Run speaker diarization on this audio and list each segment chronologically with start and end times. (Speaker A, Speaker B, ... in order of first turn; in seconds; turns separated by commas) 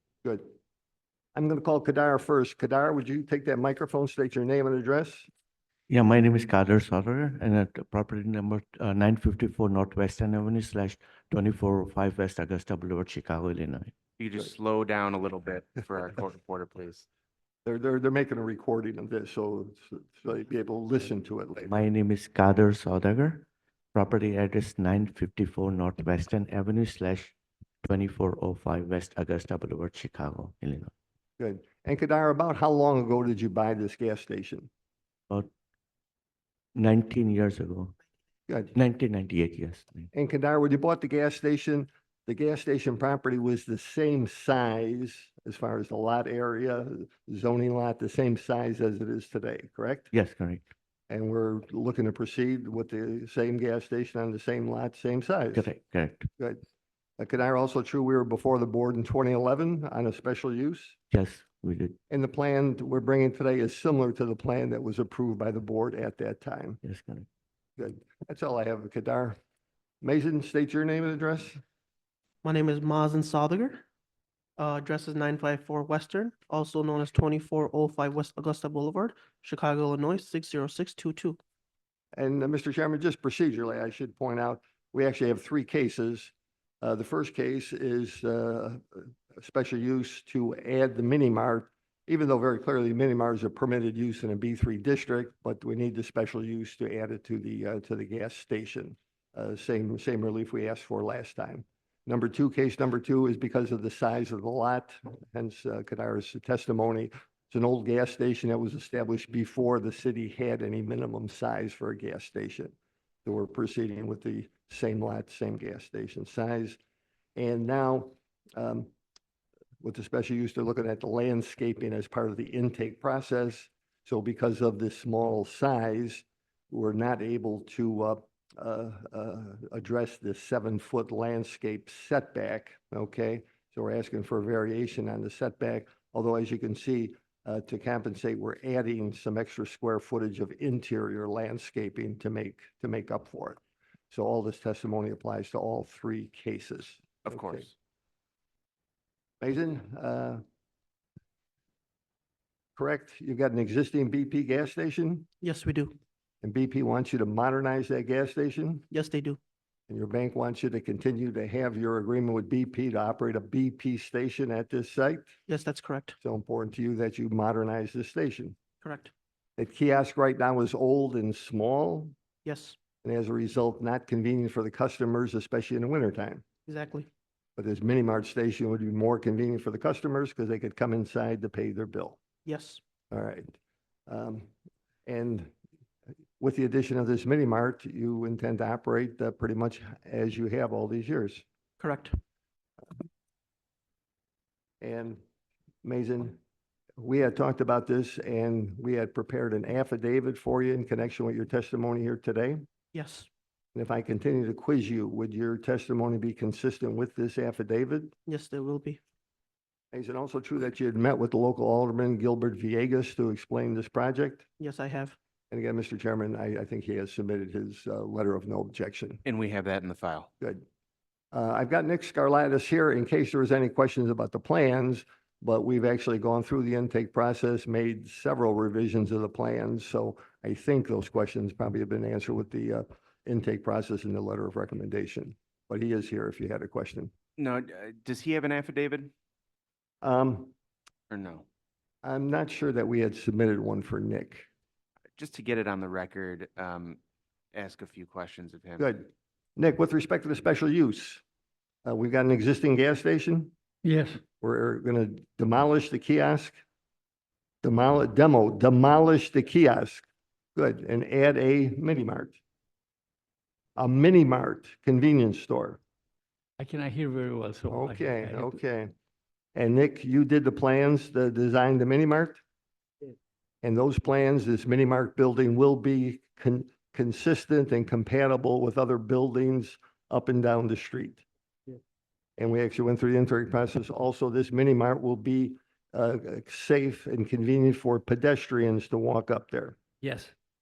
Speaker A: 1.3-5.3, Speaker B: 5.9-13.9, Speaker C: 14.2-17.1, Speaker A: 17.6-21.7, Speaker B: 21.6-30.9, Speaker A: 31.4-34.7, Speaker B: 36.8-37.9, Speaker A: 38.5-38.7, Speaker B: 38.7-40.1, Speaker A: 40.1-50.1, Speaker B: 50.1-50.6, Speaker A: 51.1-55.7, Speaker B: 55.5-56.3, Speaker A: 57.2-61.0, Speaker B: 61.1-62.0, Speaker A: 62.1-66.8, Speaker B: 66.8-67.2, Speaker A: 67.8-69.4, Speaker A: 70.0-71.6, Speaker D: 72.4-73.8, Speaker D: 74.6-81.4, Speaker A: 82.2-112.7, Speaker A: 113.2-116.8, Speaker A: 117.3-118.9, Speaker A: 119.8-147.7, Speaker C: 147.2-147.7, Speaker A: 149.4-150.4, Speaker A: 152.8-155.3, Speaker D: 155.4-156.0, Speaker A: 156.4-158.8, Speaker D: 158.9-159.4, Speaker A: 159.9-165.3, Speaker D: 165.5-166.2, Speaker A: 166.2-168.6, Speaker D: 168.8-169.1, Speaker A: 169.6-172.1, Speaker D: 172.4-172.8, Speaker A: 173.0-176.4, Speaker D: 176.7-177.1, Speaker A: 177.6-182.2, Speaker D: 182.4-182.8, Speaker A: 183.1-183.5, Speaker A: 184.1-184.5, Speaker A: 185.1-185.5, Speaker A: 186.4-191.4, Speaker D: 191.8-192.2, Speaker A: 194.8-195.2, Speaker A: 195.8-196.3, Speaker A: 197.0-202.6, Speaker D: 202.9-203.3, Speaker A: 203.7-208.1, Speaker D: 208.2-209.0, Speaker A: 209.9-214.4, Speaker D: 214.6-215.2, Speaker A: 215.5-219.2, Speaker C: 219.2-220.3, Speaker A: 221.3-237.1, Speaker C: 237.4-239.1, Speaker A: 240.0-240.5, Speaker C: 241.1-241.4, Speaker A: 242.0-244.5, Speaker C: 245.2-247.0, Speaker C: 247.5-248.9, Speaker A: 248.8-251.2, Speaker A: 251.8-253.5, Speaker E: 253.8-254.2, Speaker A: 254.4-256.6, Speaker A: 257.6-262.4, Speaker A: 263.8-265.8, Speaker E: 266.6-268.6, Speaker A: 267.7-268.9, Speaker A: 269.5-272.4, Speaker A: 273.6-281.2, Speaker A: 282.4-289.8, Speaker E: 290.0-290.3